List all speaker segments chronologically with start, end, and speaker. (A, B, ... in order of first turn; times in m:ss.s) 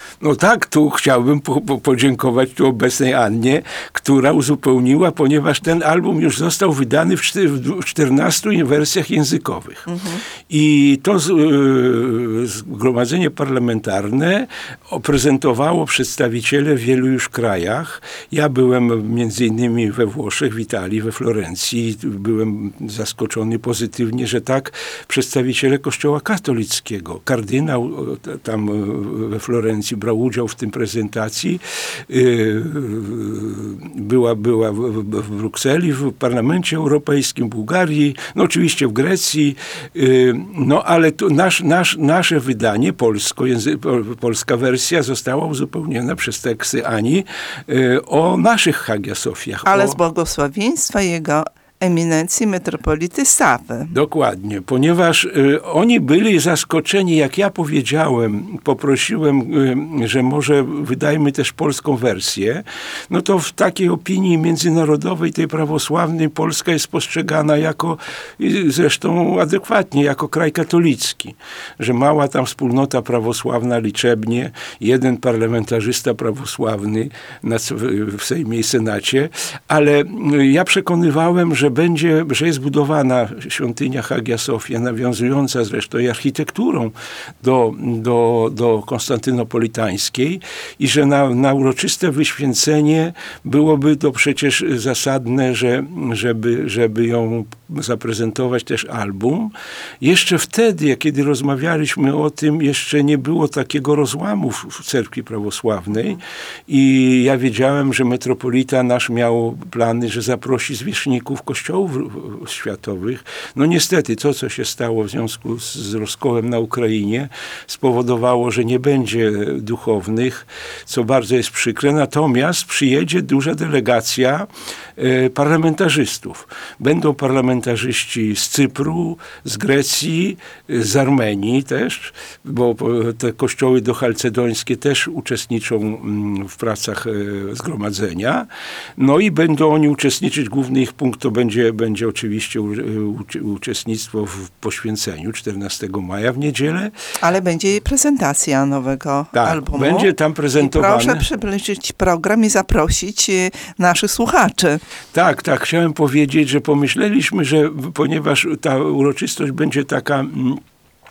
0:00.2-0:09.9 A
0:09.9-0:10.2 B
0:10.5-0:50.0 A
0:49.6-0:53.9 B
0:53.9-2:26.9 A
2:27.2-2:34.8 B
2:29.3-2:31.2 A
2:35.1-2:40.6 A